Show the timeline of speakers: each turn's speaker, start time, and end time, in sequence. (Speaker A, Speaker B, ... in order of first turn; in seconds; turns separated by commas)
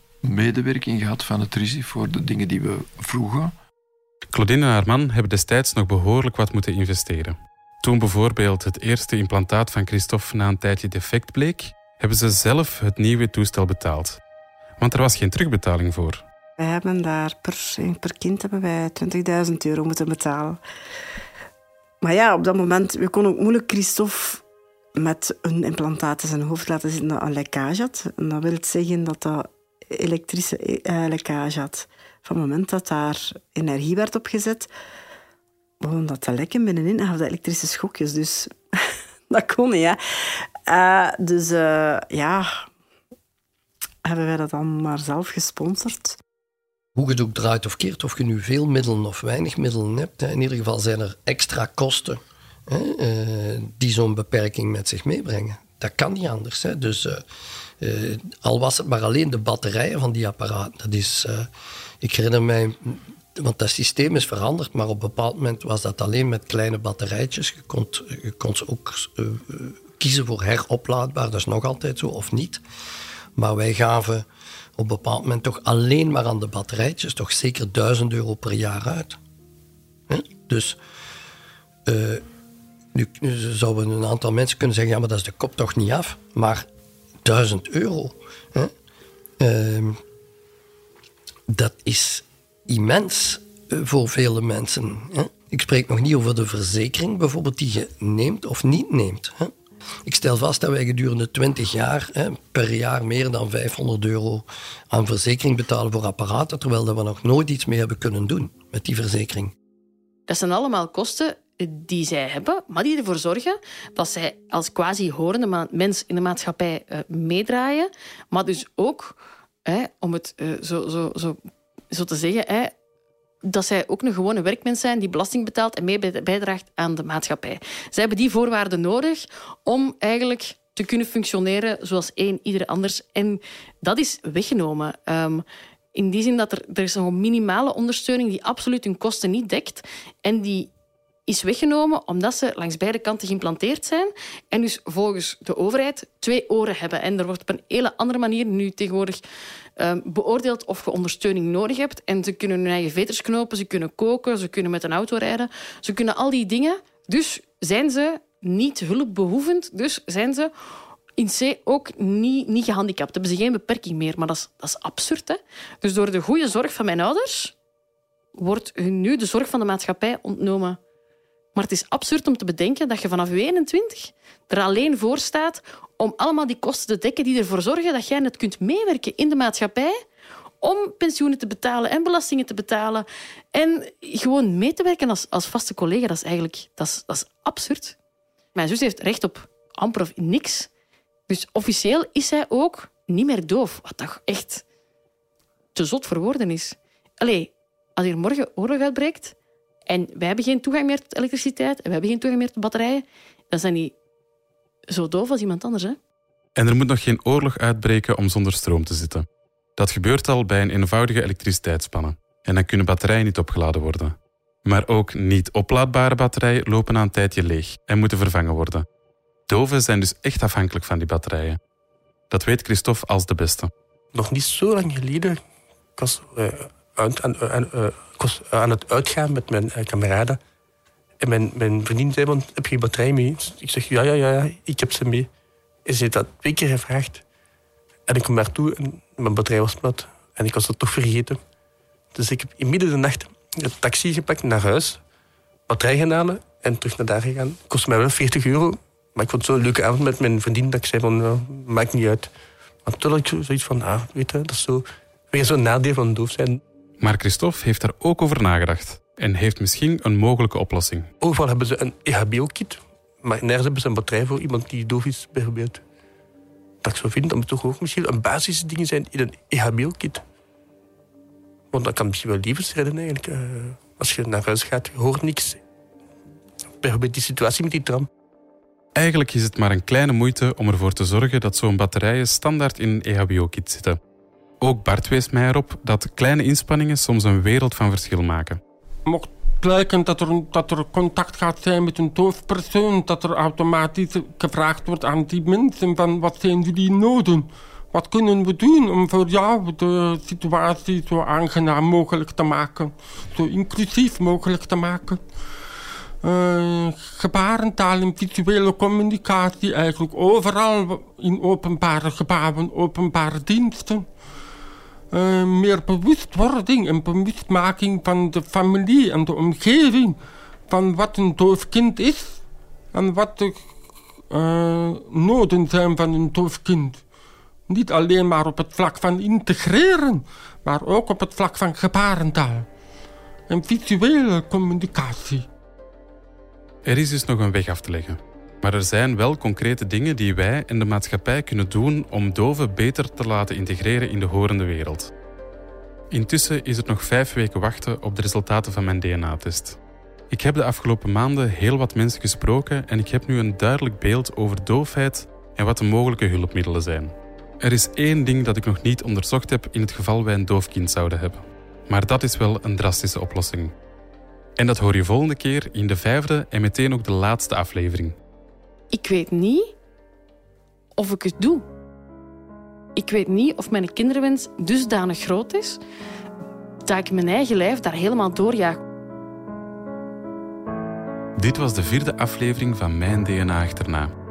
Speaker A: 0.2-3.5, Speaker B: 4.3-14.2, Speaker B: 14.8-16.2, Speaker C: 16.6-20.6, Speaker C: 22.0-24.4, Speaker C: 25.0-34.7, Speaker C: 35.8-38.6, Speaker C: 39.3-42.7, Speaker C: 44.0-46.2, Speaker D: 47.0-57.2, Speaker D: 57.8-61.5, Speaker D: 62.0-72.6, Speaker D: 73.4-79.2, Speaker D: 80.1-80.8, Speaker D: 81.9-82.2, Speaker D: 82.9-86.7, Speaker D: 87.2-88.7, Speaker D: 89.4-90.0, Speaker D: 91.5-99.5, Speaker D: 100.1-109.5, Speaker E: 110.3-121.4, Speaker E: 121.9-122.7, Speaker E: 123.5-135.4, Speaker E: 135.9-140.7, Speaker E: 141.3-149.2, Speaker E: 149.8-160.5, Speaker E: 161.2-167.5, Speaker E: 168.4-170.8, Speaker E: 171.6-180.0, Speaker E: 180.6-188.0, Speaker E: 188.6-190.7, Speaker E: 191.3-194.6, Speaker E: 195.8-199.3, Speaker E: 199.9-203.9, Speaker E: 204.9-206.0, Speaker B: 206.6-218.9, Speaker B: 219.5-221.6, Speaker B: 222.3-223.7, Speaker F: 224.1-225.4, Speaker F: 226.0-230.4, Speaker F: 231.2-235.3, Speaker F: 235.9-237.2, Speaker F: 238.1-241.4, Speaker F: 242.1-245.0, Speaker F: 245.7-252.3, Speaker F: 252.8-256.6, Speaker B: 257.0-261.1, Speaker F: 261.2-265.8, Speaker F: 266.8-270.2, Speaker F: 271.7-275.6, Speaker F: 276.8-278.1, Speaker B: 279.0-284.0, Speaker B: 284.6-288.6, Speaker G: 289.1-305.2, Speaker G: 306.2-314.1, Speaker G: 315.1-322.4, Speaker G: 322.9-323.7, Speaker G: 324.3-327.0, Speaker G: 327.7-332.7, Speaker G: 333.5-335.5, Speaker B: 336.9-345.1, Speaker B: 346.1-349.8, Speaker B: 350.3-363.7, Speaker B: 364.6-368.2, Speaker E: 368.9-369.7, Speaker E: 371.0-371.6, Speaker E: 373.0-375.8, Speaker E: 376.9-378.8, Speaker B: 381.4-384.1